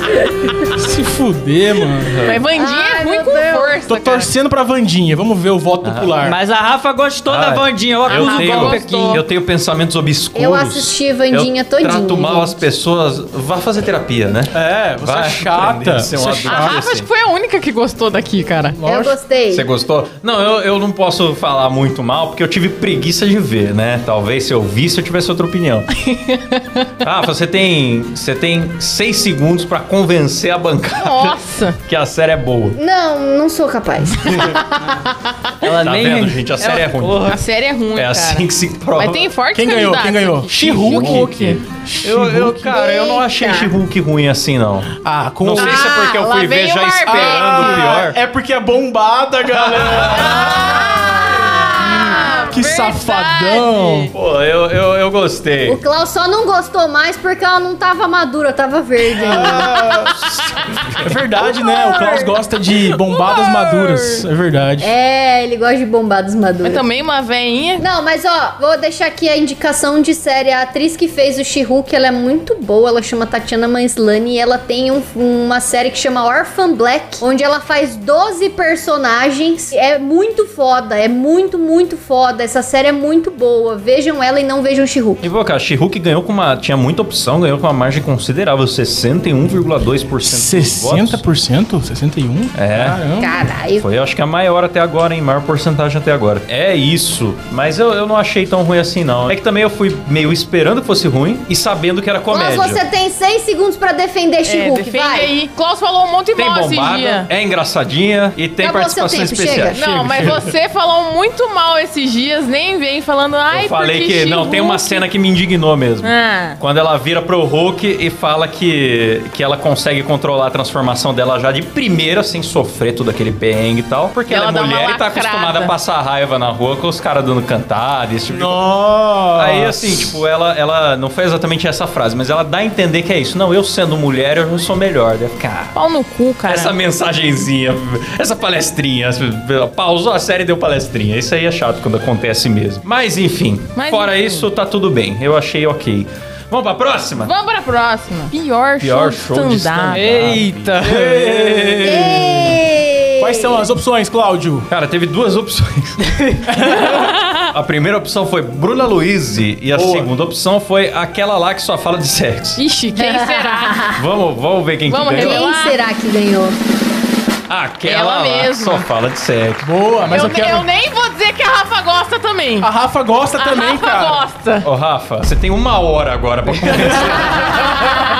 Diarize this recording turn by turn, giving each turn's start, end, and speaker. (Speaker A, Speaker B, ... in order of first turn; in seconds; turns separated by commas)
Speaker A: 0.6-2.2, Speaker B: 2.0-2.4, Speaker C: 2.2-4.3, Speaker D: 2.5-3.8, Speaker A: 3.9-6.4, Speaker B: 5.8-6.2, Speaker E: 6.2-9.2, Speaker B: 7.2-17.1, Speaker C: 8.1-9.2, Speaker D: 10.3-12.6, Speaker A: 14.5-16.8, Speaker C: 16.4-18.8, Speaker A: 18.7-19.2, Speaker D: 18.8-19.7, Speaker B: 19.5-25.9, Speaker C: 25.9-26.9, Speaker B: 27.0-32.8, Speaker C: 30.9-31.8, Speaker D: 32.8-34.5, Speaker C: 34.2-35.2, Speaker E: 35.6-37.4, Speaker B: 35.8-37.3, Speaker C: 37.2-41.6, Speaker B: 37.9-39.3, Speaker A: 39.5-42.7, Speaker B: 40.6-48.2, Speaker D: 42.7-43.7, Speaker A: 45.0-45.9, Speaker C: 45.5-48.0, Speaker A: 47.1-54.1, Speaker B: 49.5-51.7, Speaker C: 50.2-54.1, Speaker D: 50.8-52.1, Speaker B: 54.1-55.8, Speaker D: 55.6-60.1, Speaker A: 59.3-60.1, Speaker B: 59.3-61.0, Speaker A: 61.0-64.9, Speaker D: 61.4-62.4, Speaker C: 63.0-64.2, Speaker D: 64.8-66.8, Speaker C: 66.6-67.8, Speaker D: 67.8-85.2, Speaker B: 85.2-91.2, Speaker A: 90.2-93.3, Speaker B: 92.5-93.0, Speaker D: 93.2-93.8, Speaker B: 93.8-102.8, Speaker D: 102.3-105.3, Speaker C: 104.5-107.3, Speaker B: 106.3-110.5, Speaker D: 108.6-109.8, Speaker C: 109.7-115.0, Speaker B: 113.5-128.6, Speaker C: 116.0-116.6, Speaker C: 124.3-125.7, Speaker A: 128.3-130.2, Speaker B: 129.3-135.7, Speaker C: 135.7-136.7, Speaker B: 136.5-147.3, Speaker C: 143.8-144.5, Speaker C: 147.2-150.3, Speaker B: 148.8-151.8, Speaker E: 149.9-152.0, Speaker A: 150.8-152.6, Speaker D: 151.8-153.7, Speaker A: 153.2-154.7, Speaker B: 154.7-156.1, Speaker E: 156.1-156.4, Speaker A: 156.5-157.1, Speaker B: 156.7-162.6, Speaker A: 159.7-160.1, Speaker C: 162.6-163.9, Speaker D: 162.9-164.0, Speaker B: 163.9-165.5, Speaker C: 164.9-165.8, Speaker D: 165.1-166.6, Speaker B: 167.5-170.1, Speaker C: 167.8-168.8, Speaker A: 169.6-170.7, Speaker C: 170.1-172.7, Speaker A: 172.6-174.2, Speaker C: 173.4-174.7, Speaker B: 174.6-177.9